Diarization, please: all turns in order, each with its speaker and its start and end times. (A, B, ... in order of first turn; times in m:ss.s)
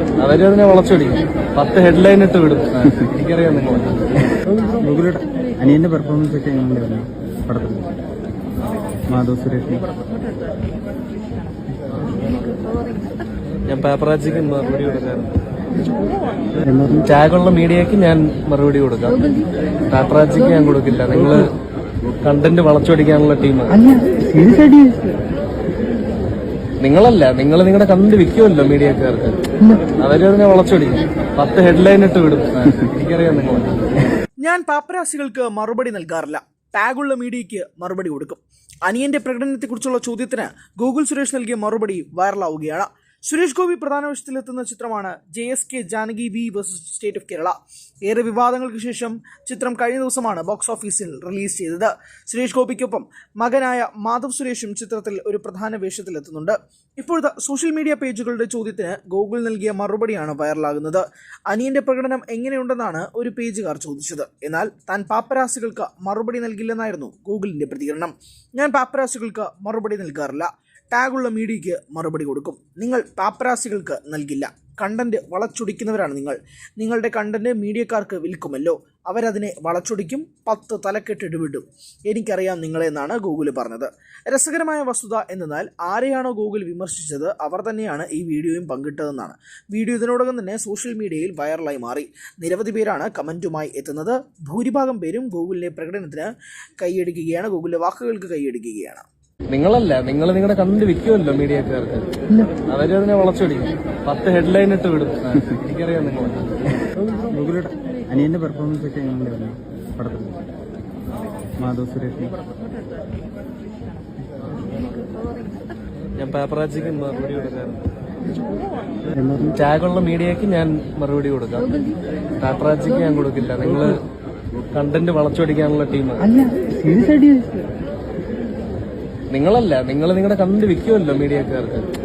0:00.2-0:04.1 A
0:04.8-0:08.0 B
0:09.1-0:09.9 B
0:13.7-0:15.3 A
0:16.6-0:17.1 B
0:17.0-0:19.2 A
0:19.9-0:21.5 A
0:22.2-0:23.9 A
0:23.8-0:25.1 B
0:26.8-0:29.4 A
0:30.0-0:33.8 A
0:34.4-1:39.1 C
1:39.5-1:42.1 A
1:42.7-1:46.6 A
1:47.3-1:50.4 B
1:51.6-1:52.4 B
1:56.2-1:57.8 A
1:59.1-1:59.6 B
1:59.5-2:01.7 A
2:02.4-2:04.0 A
2:04.7-2:06.3 A
2:06.3-2:07.6 B
2:09.3-2:11.9 A